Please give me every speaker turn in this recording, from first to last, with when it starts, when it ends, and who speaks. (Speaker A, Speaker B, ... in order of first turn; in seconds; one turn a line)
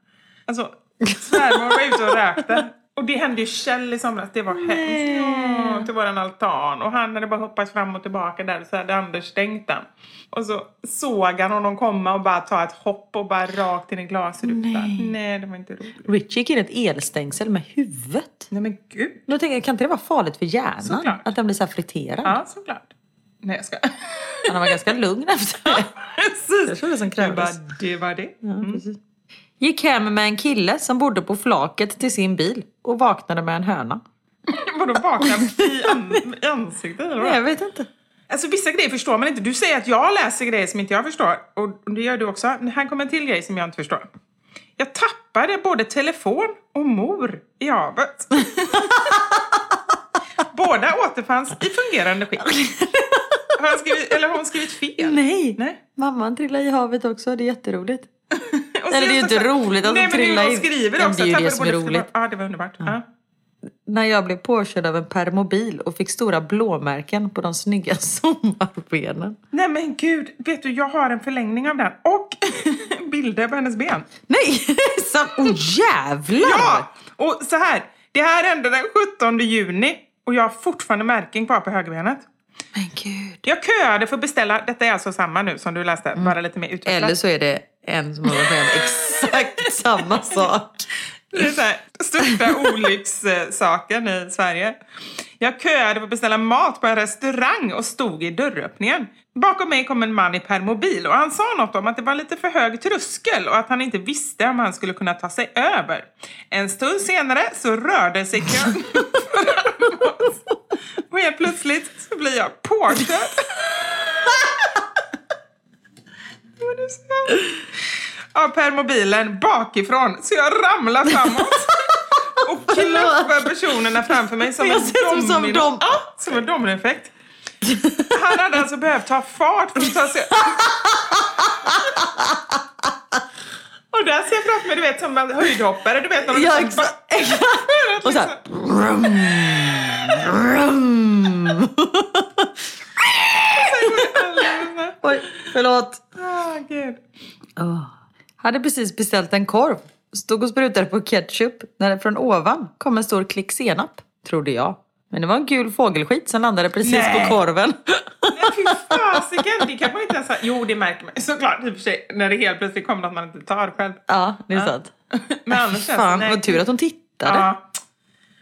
Speaker A: 0.5-16.1
Speaker B: 1.1-2.2
Speaker B: 4.5-5.9
Speaker B: 14.4-15.2
Speaker B: 16.1-18.5
Speaker A: 18.5-19.2
Speaker B: 19.3-22.4
Speaker A: 20.8-21.3
Speaker A: 22.2-22.9
Speaker A: 23.4-24.8
Speaker B: 24.5-25.9
Speaker A: 25.7-28.8
Speaker B: 26.7-27.6
Speaker B: 28.4-29.0
Speaker B: 29.6-34.0
Speaker A: 34.5-37.4
Speaker B: 35.2-36.0
Speaker B: 37.2-37.9
Speaker A: 38.3-44.1
Speaker A: 44.8-49.1
Speaker A: 50.5-52.5
Speaker B: 52.5-53.5
Speaker A: 53.6-55.8
Speaker B: 55.0-58.1
Speaker A: 58.4-63.0
Speaker B: 58.9-62.1
Speaker B: 63.9-69.4
Speaker A: 69.5-74.1
Speaker B: 74.3-76.9
Speaker A: 76.4-82.2
Speaker B: 82.8-83.4
Speaker A: 83.5-87.2
Speaker B: 86.9-90.8
Speaker A: 90.1-90.5
Speaker A: 91.3-94.8
Speaker B: 92.3-92.6
Speaker A: 95.4-110.4
Speaker A: 111.1-113.5
Speaker A: 116.6-117.5
Speaker A: 118.3-121.9
Speaker A: 122.4-127.1
Speaker B: 122.7-123.5
Speaker B: 124.5-125.8
Speaker B: 127.6-128.1
Speaker A: 128.1-130.6
Speaker B: 129.9-133.2
Speaker A: 133.9-138.4
Speaker B: 136.2-146.0
Speaker A: 143.5-145.5
Speaker A: 146.2-147.0
Speaker B: 147.6-159.0
Speaker A: 156.8-157.4
Speaker A: 158.3-164.0
Speaker B: 164.1-164.9
Speaker A: 165.4-166.6
Speaker B: 165.5-167.5
Speaker A: 167.2-167.6